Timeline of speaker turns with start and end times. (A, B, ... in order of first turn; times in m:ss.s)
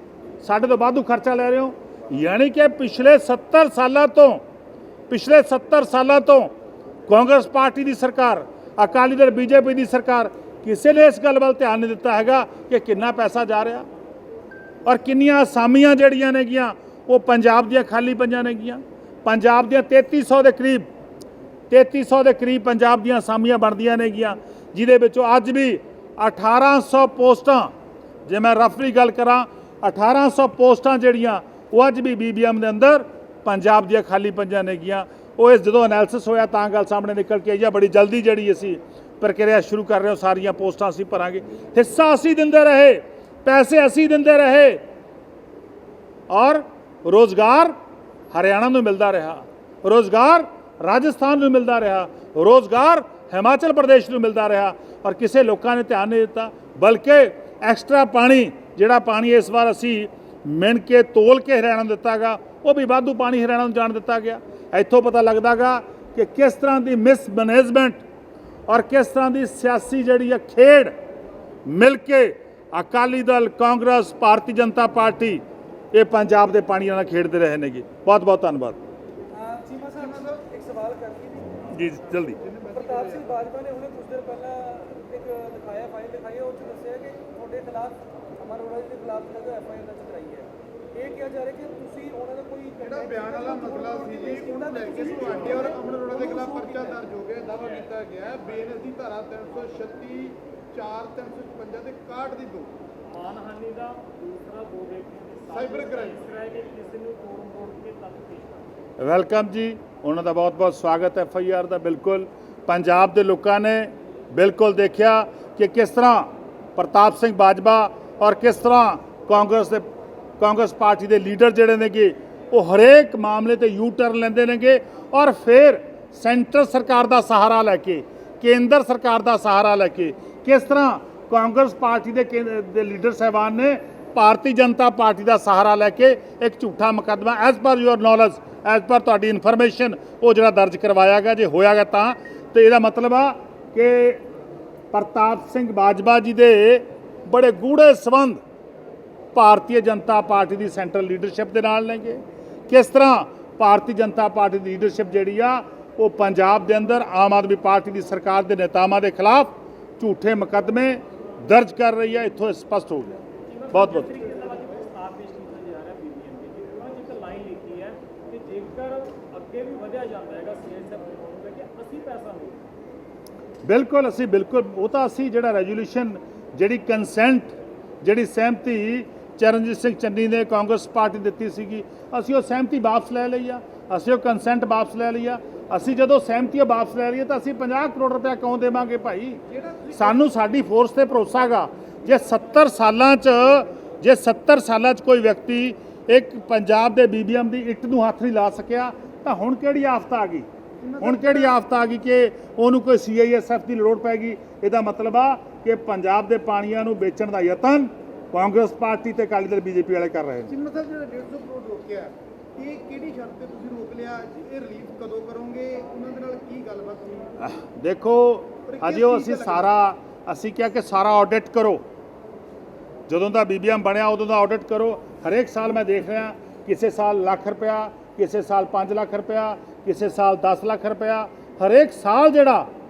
0:00.4-0:04.4 A
0:05.1-0:06.5 A
0:07.1-0:13.9 A
0:14.9-0:20.8 A
0:21.7-0:27.7 A
0:28.3-0:44.8 A
0:46.3-0:47.8 A
0:48.3-1:08.0 A
1:08.7-1:10.9 A
1:11.6-1:15.4 A
1:15.9-1:18.8 A
1:19.3-1:21.6 B
1:20.0-1:20.4 C
1:21.6-1:22.4 A
1:22.4-1:23.3 C
1:22.8-1:36.9 B
1:32.8-1:42.7 C
1:43.1-1:48.6 D
1:45.5-1:46.2 C
1:49.0-1:59.8 A
2:00.4-2:24.2 A
2:24.9-2:28.4 A
2:29.4-2:43.2 A
2:43.5-2:52.6 D
2:43.7-2:44.2 A
2:53.6-3:09.4 A
3:09.5-3:10.3 C
3:09.9-3:20.5 A
3:20.8-3:21.6 C
3:21.0-3:30.5 A
3:30.5-3:37.3 C
3:37.4-3:41.8 A
3:38.7-3:39.7 C
3:43.1-3:52.7 A